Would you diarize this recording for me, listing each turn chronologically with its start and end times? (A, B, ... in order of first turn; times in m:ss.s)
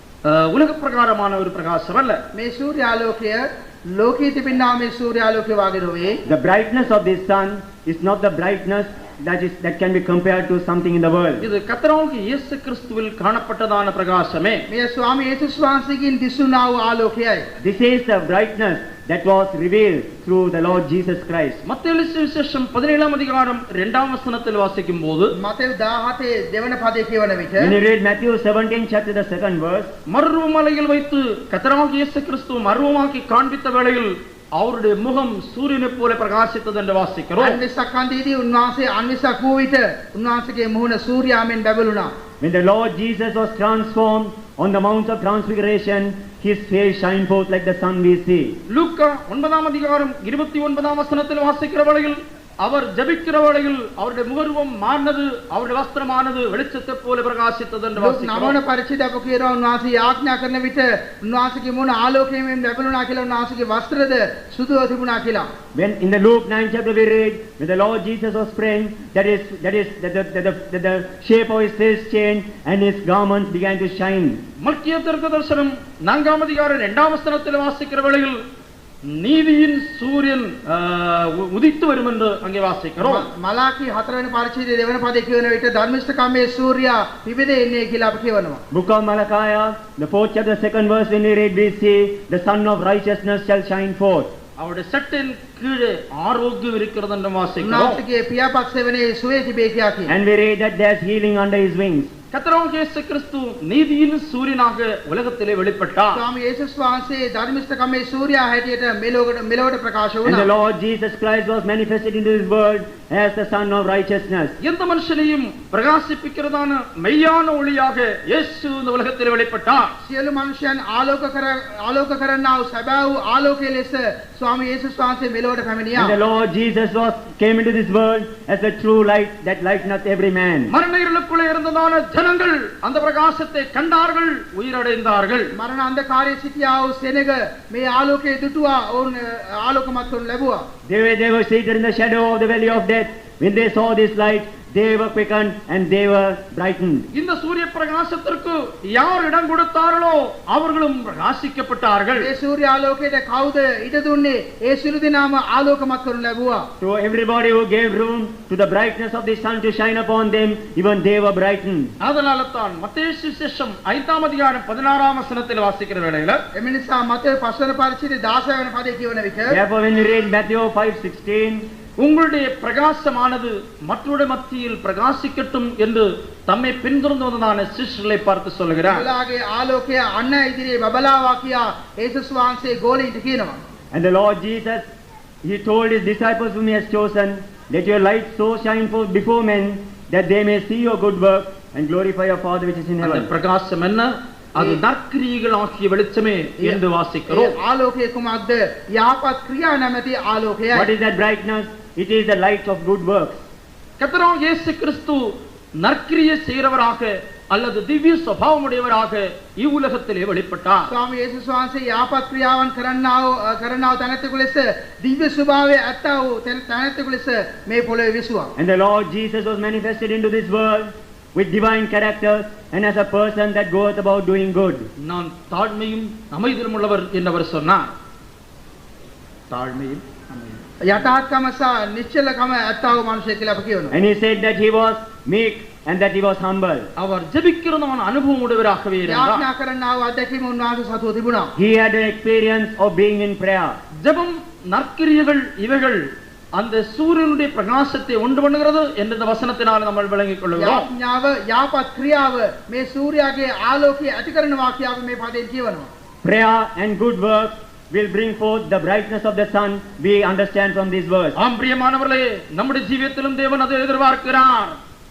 0:00.2-0:02.2 A
0:02.3-0:06.2 B
0:06.2-0:11.4 C
0:11.4-0:14.6 A
0:14.7-0:17.4 B
0:17.6-0:21.6 C
0:21.6-0:25.3 A
0:25.4-0:27.7 B
0:27.6-0:29.9 C
0:30.1-0:37.6 A
0:37.4-0:42.1 B
0:42.4-0:48.5 C
0:48.7-0:58.6 A
0:58.0-1:05.4 B
1:05.7-1:14.4 C
1:14.6-1:18.4 A
1:19.0-1:23.3 A
1:23.0-1:28.6 B
1:28.7-1:34.3 C
1:34.6-1:38.0 A
1:37.6-1:40.1 B
1:40.1-1:42.1 C
1:42.3-1:46.2 A
1:46.1-1:50.5 B
1:50.2-1:54.5 C
1:54.6-1:59.9 A
2:00.0-2:06.2 B
2:06.0-2:10.7 C
2:10.7-2:15.5 A
2:15.5-2:20.6 B
2:20.9-2:27.1 C
2:27.1-2:32.3 A
2:32.1-2:36.7 B
2:36.8-2:41.9 C
2:42.0-2:46.4 A
2:46.5-2:49.6 B
2:49.5-2:51.6 C
2:52.0-2:59.0 A
2:58.8-3:03.6 B
3:03.9-3:04.9 C
3:05.4-3:13.3 C
3:13.0-3:17.6 A
3:16.6-3:20.9 B
3:20.7-3:23.4 C
3:24.0-3:30.9 A
3:30.8-3:38.5 B
3:38.6-3:44.9 C
3:45.0-3:47.9 A
3:49.5-3:50.6 A
3:50.8-3:53.9 B
3:53.9-3:56.9 C
3:57.0-3:59.4 A
3:59.0-4:01.5 B
4:01.6-4:03.8 C
4:04.0-4:10.9 A
4:10.6-4:15.9 B
4:16.2-4:21.4 C
4:21.4-4:24.8 A